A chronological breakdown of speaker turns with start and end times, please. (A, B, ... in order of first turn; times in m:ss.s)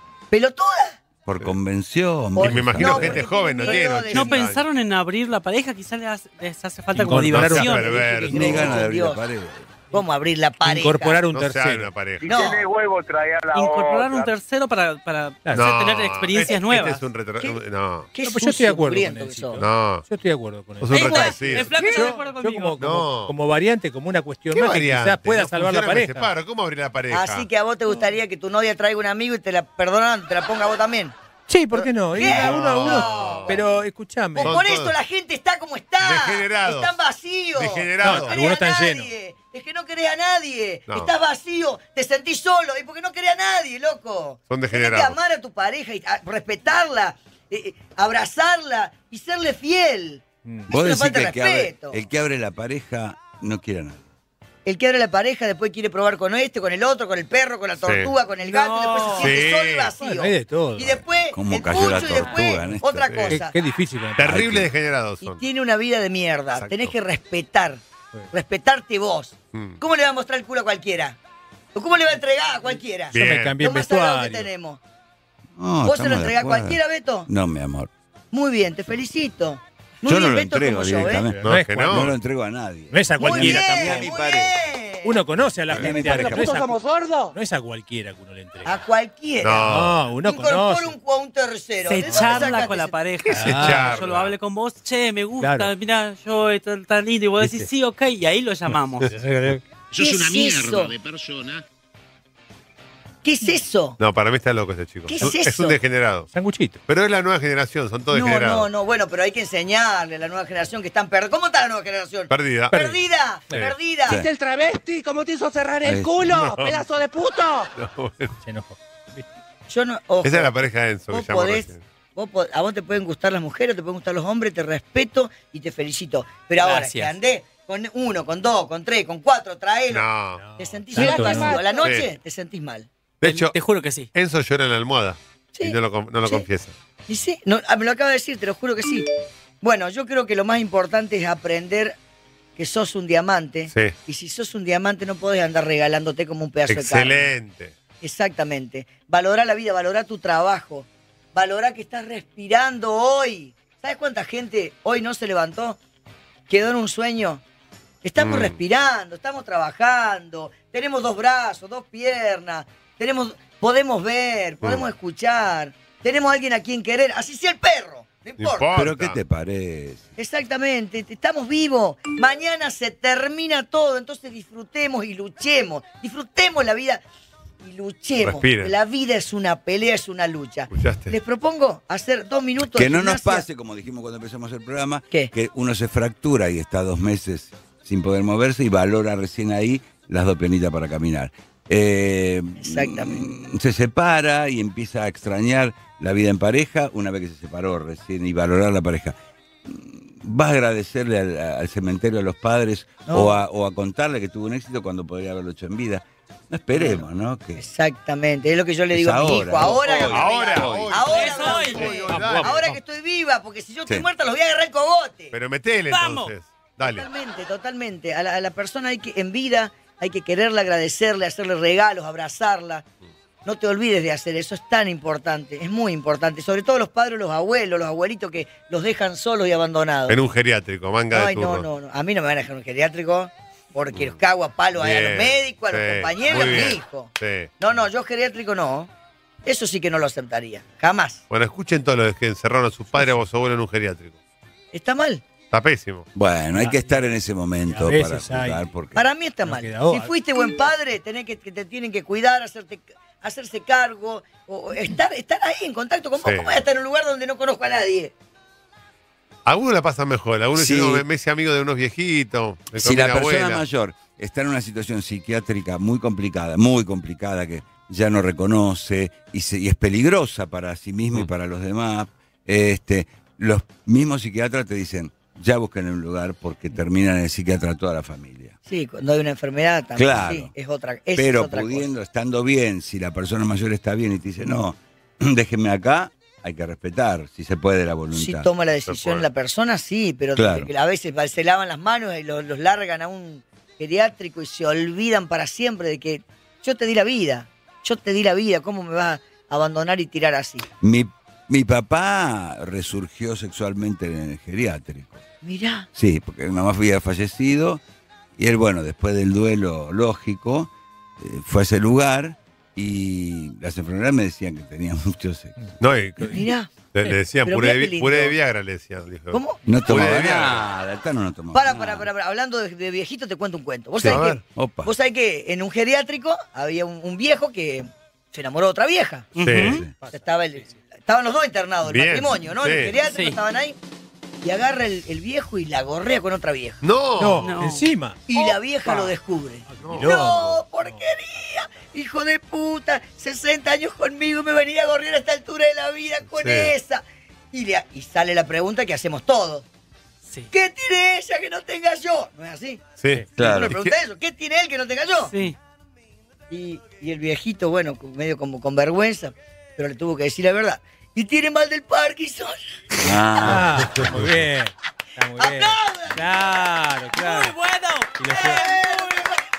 0:00.3-0:01.0 A
0:01.3-0:03.3 B
0:02.4-0:04.5 A
0:02.4-0:04.6 C
0:04.1-0:08.2 D
0:06.9-0:08.2 E
0:07.3-0:08.8 C
0:08.2-0:09.2 A
0:08.3-0:09.7 B
0:09.9-0:11.2 A
0:10.6-0:11.9 E
0:11.3-0:12.4 C
0:12.2-0:14.3 F
0:12.2-0:12.7 A
0:13.5-0:17.0 D
0:15.5-0:15.8 E
0:15.5-0:18.1 C
0:18.1-0:19.6 A
0:18.2-0:26.3 E
0:19.6-0:20.1 C
0:20.8-0:21.8 C
0:20.9-0:21.6 A
0:21.1-0:22.8 D
0:22.8-0:23.4 C
0:24.5-0:27.5 C
0:27.1-0:31.2 A
0:31.5-0:34.6 E
0:31.7-0:33.6 A
0:32.2-0:33.6 C
0:34.4-0:35.0 C
0:34.4-0:52.0 A
0:36.0-0:37.0 C
0:37.6-0:38.5 C
0:38.0-0:39.1 E
0:44.5-0:45.2 C
0:50.4-0:50.7 E
0:50.7-0:54.0 B
0:54.7-1:03.5 A
0:57.8-0:58.1 C
0:58.5-0:59.4 E
0:59.2-0:59.9 C
1:00.0-1:01.0 E
1:01.3-1:03.2 B
1:03.1-1:03.4 C
1:03.3-1:04.4 E
1:04.2-1:05.4 C
1:04.2-1:04.7 B
1:05.2-1:11.2 A
1:06.6-1:06.9 C
1:11.8-1:14.8 A
1:13.1-1:13.6 C
1:13.1-1:14.5 E
1:15.6-1:17.9 B
1:15.8-1:17.3 A
1:18.3-1:21.3 A
1:20.0-1:24.5 B
1:21.3-1:22.1 E
1:21.4-1:22.1 C
1:22.9-1:24.1 E
1:23.2-1:25.2 A
1:25.0-1:28.8 E
1:25.7-1:26.8 B
1:26.0-1:27.3 G
1:28.6-1:33.0 A
1:29.4-1:30.0 C
1:29.6-1:30.9 E
1:31.9-1:39.1 D
1:32.0-1:32.6 E
1:33.3-1:34.0 E
1:33.4-1:34.4 C
1:35.4-1:35.7 E
1:37.4-1:37.7 E
1:38.7-1:39.6 E
1:39.9-1:41.6 H
1:40.0-1:41.0 A
1:43.2-1:44.0 A
1:44.0-1:46.3 C
1:45.1-1:45.8 A
1:46.3-1:46.8 E
1:46.9-1:48.7 C
1:48.1-1:54.3 A
1:52.3-1:52.8 C
1:52.7-1:53.0 E
1:54.3-1:54.8 G
1:55.4-1:57.6 G
1:55.7-1:57.2 H
1:55.8-1:56.3 B
1:56.3-1:56.8 C
1:57.8-1:58.3 C
1:58.4-1:59.3 E
1:59.7-2:00.5 A
2:00.2-2:01.8 C
2:01.1-2:10.1 A
2:06.6-2:07.1 D
2:09.9-2:10.4 C
2:10.4-2:11.7 E
2:10.6-2:12.9 A
2:11.0-2:11.9 G
2:11.8-2:12.1 C
2:13.2-2:13.6 C
2:13.2-2:14.1 D
2:14.1-2:16.7 C
2:15.6-2:16.5 A
2:17.1-2:19.1 A
2:19.6-2:22.0 A
2:22.6-2:27.3 A
2:26.7-2:27.7 C
2:28.0-2:35.8 A
2:36.5-2:37.4 A
2:38.0-2:48.7 A
2:38.2-2:38.6 C
2:48.4-2:49.2 C
2:48.7-2:50.1 B
2:50.2-2:57.0 A
2:57.6-3:03.5 A
2:58.2-2:58.7 C
3:00.7-3:01.2 C
3:02.7-3:27.6 B
3:12.6-3:13.2 A
3:23.1-3:23.4 A
3:26.8-3:27.0 A
3:27.6-3:35.4 A
3:28.9-3:31.0 B
3:29.7-3:32.6 C
3:31.1-3:32.3 D
3:32.1-3:32.8 E
3:35.3-3:37.1 C
3:35.9-3:36.3 D
3:36.8-3:42.8 A
3:43.4-3:50.2 A
3:50.1-3:51.7 C
3:51.1-3:58.9 A
3:54.8-3:57.5 C
3:59.4-4:01.2 A
4:01.3-4:04.2 C
4:04.7-4:05.2 A
4:05.5-4:06.1 C
4:06.2-4:09.0 B
4:06.6-4:07.0 E
4:07.6-4:08.7 E
4:09.0-4:18.1 A
4:09.4-4:10.1 E
4:16.2-4:16.6 C
4:19.5-4:23.6 C
4:20.6-4:21.0 B
4:22.8-4:38.6 B
4:38.7-4:41.9 A
4:40.0-4:40.5 B
4:41.2-4:48.5 B
4:48.1-5:00.7 A
4:48.9-4:49.3 C
4:50.4-4:50.7 B
5:00.8-5:05.2 B
5:05.4-5:05.9 A
5:06.0-5:07.8 B
5:08.4-5:15.6 B
5:15.8-5:16.4 C
5:16.3-5:16.7 A
5:16.9-5:20.6 C
5:17.4-5:18.4 A
5:19.3-5:19.6 A
5:19.7-5:22.1 B
5:21.5-5:29.3 A
5:24.0-5:24.4 C
5:24.5-5:24.9 B
5:29.4-5:29.8 D
5:29.4-5:29.8 C
5:29.6-5:29.9 B
5:30.0-5:30.8 E
5:30.1-5:33.8 A
5:31.8-5:32.9 C
5:33.0-5:33.4 D
5:34.4-5:36.8 A
5:36.8-5:37.6 C
5:37.2-5:39.1 E
5:37.4-5:37.9 D
5:38.3-5:49.6 A
5:39.7-5:41.1 E
5:39.8-5:40.3 C
5:46.4-5:46.7 C
5:50.5-5:52.8 A
5:53.0-5:53.9 C
5:53.4-5:53.7 B
5:53.4-5:55.4 A
5:55.3-5:55.6 D
5:56.5-6:02.6 A
6:03.0-6:04.2 B
6:03.4-6:07.6 E
6:03.9-6:04.4 C
6:05.4-6:06.4 A
6:07.2-6:09.0 D
6:08.2-6:08.7 E
6:08.3-6:09.3 A